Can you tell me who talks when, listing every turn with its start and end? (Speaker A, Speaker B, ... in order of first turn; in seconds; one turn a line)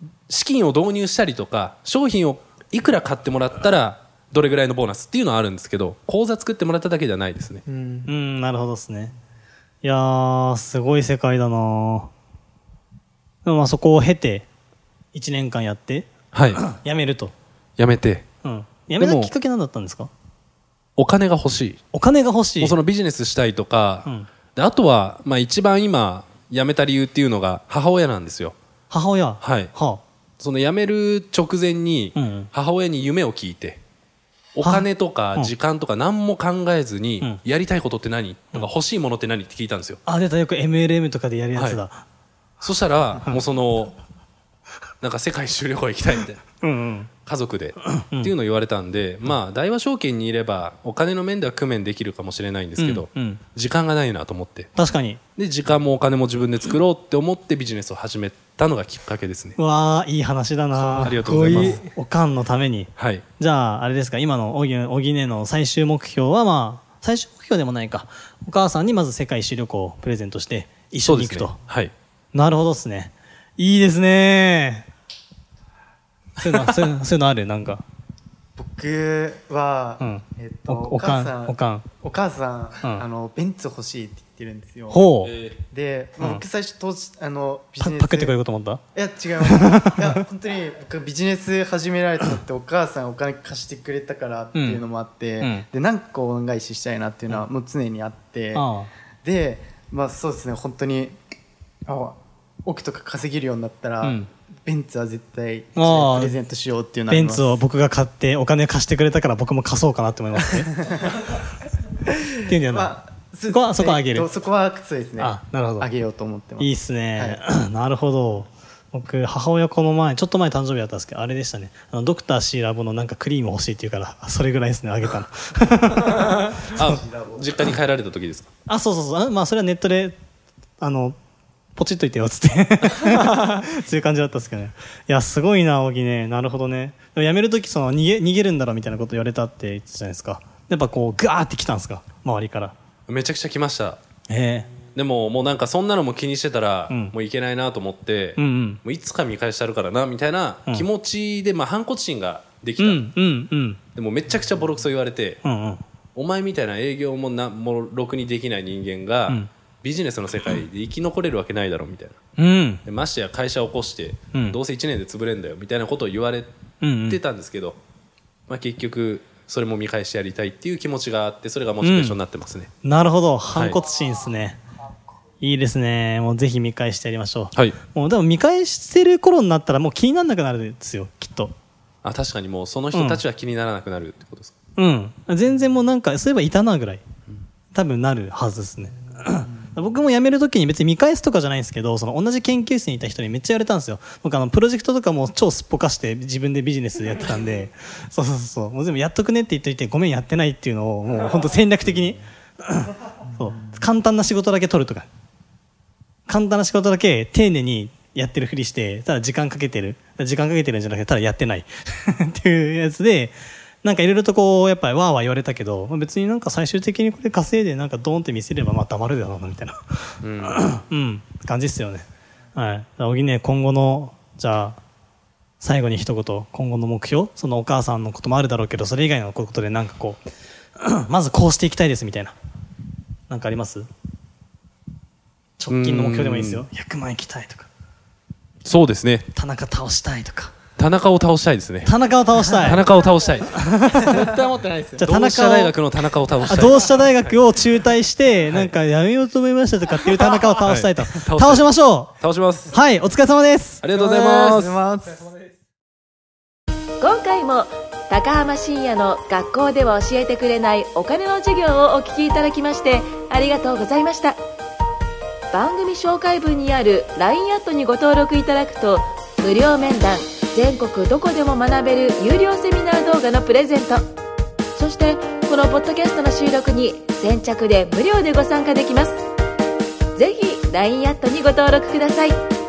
Speaker A: 0.3-7.6
Speaker B: 7.7-8.1
Speaker C: 8.1-9.1
Speaker C: 9.8-12.1
Speaker C: 13.4-14.5
Speaker C: 15.1-17.3
Speaker A: 16.3-16.7
Speaker A: 17.8-18.2
Speaker C: 18.4-20.1
Speaker A: 19.0-19.3
Speaker A: 21.0-21.8
Speaker C: 21.9-22.8
Speaker A: 22.6-28.6
Speaker C: 28.9-30.0
Speaker A: 29.4-29.7
Speaker A: 30.4-33.8
Speaker C: 32.1-32.5
Speaker A: 34.5-40.0
Speaker C: 34.6-35.5
Speaker C: 40.1-42.0
Speaker A: 41.5-41.8
Speaker A: 42.6-44.0
Speaker A: 45.0-46.4
Speaker C: 46.6-47.1
Speaker A: 47.3-54.7
Speaker C: 47.8-48.3
Speaker C: 52.8-53.4
Speaker C: 54.8-55.2
Speaker A: 55.4-59.6
Speaker C: 59.6-71.6
Speaker B: 60.8-61.8
Speaker A: 61.0-61.8
Speaker A: 63.0-63.2
Speaker A: 71.0-71.9
Speaker C: 72.3-74.9
Speaker C: 76.4-77.8
Speaker D: 78.6-85.0
Speaker C: 80.0-81.9
Speaker C: 84.9-85.3
Speaker A: 85.2-85.6
Speaker D: 85.7-88.3
Speaker C: 86.2-86.4
Speaker C: 87.8-88.8
Speaker D: 89.0-98.6
Speaker C: 89.4-90.2
Speaker C: 94.5-94.8
Speaker C: 95.4-95.7
Speaker C: 98.5-98.9
Speaker D: 99.2-101.2
Speaker D: 101.9-107.5
Speaker C: 104.0-104.3
Speaker C: 105.8-106.3
Speaker C: 107.1-110.8
Speaker D: 110.9-111.2
Speaker C: 112.5-113.0
Speaker D: 112.5-117.4
Speaker C: 113.5-114.3
Speaker C: 115.2-115.9
Speaker C: 116.6-126.3
Speaker A: 126.7-128.5
Speaker D: 126.9-127.4
Speaker C: 128.7-130.2
Speaker C: 130.8-131.2
Speaker C: 131.8-142.8
Speaker A: 143.1-144.0
Speaker C: 144.3-144.7
Speaker A: 144.9-153.1
Speaker C: 146.9-147.2
Speaker C: 148.4-148.8
Speaker C: 152.8-153.8
Speaker A: 153.9-155.4
Speaker C: 155.4-155.8
Speaker A: 156.2-162.2
Speaker C: 162.4-162.8
Speaker A: 162.9-166.5
Speaker C: 166.8-167.2
Speaker A: 167.1-167.8
Speaker A: 168.5-172.7
Speaker C: 171.8-172.2
Speaker C: 172.8-174.6
Speaker A: 173.5-173.8
Speaker C: 175.4-181.5
Speaker A: 182.0-184.6
Speaker C: 182.9-183.2
Speaker C: 184.8-187.0
Speaker C: 187.7-205.1
Speaker C: 206.3-219.8
Speaker A: 220.2-220.7
Speaker C: 220.4-224.8
Speaker C: 225.6-230.2
Speaker C: 230.8-232.3
Speaker C: 233.3-233.9
Speaker C: 235.6-237.7
Speaker A: 235.7-236.7
Speaker A: 238.6-239.3
Speaker C: 239.3-240.6
Speaker A: 240.8-241.9
Speaker C: 241.8-242.9
Speaker A: 242.6-243.6
Speaker C: 243.5-244.3
Speaker B: 243.9-245.1
Speaker C: 245.0-245.8
Speaker A: 245.0-247.3
Speaker C: 246.4-252.1
Speaker A: 250.6-251.7
Speaker A: 252.2-252.8
Speaker C: 252.7-253.8
Speaker A: 253.8-254.8
Speaker D: 254.0-255.3
Speaker E: 257.0-264.4
Speaker E: 265.5-274.1
Speaker E: 274.8-279.2
Speaker E: 280.1-282.4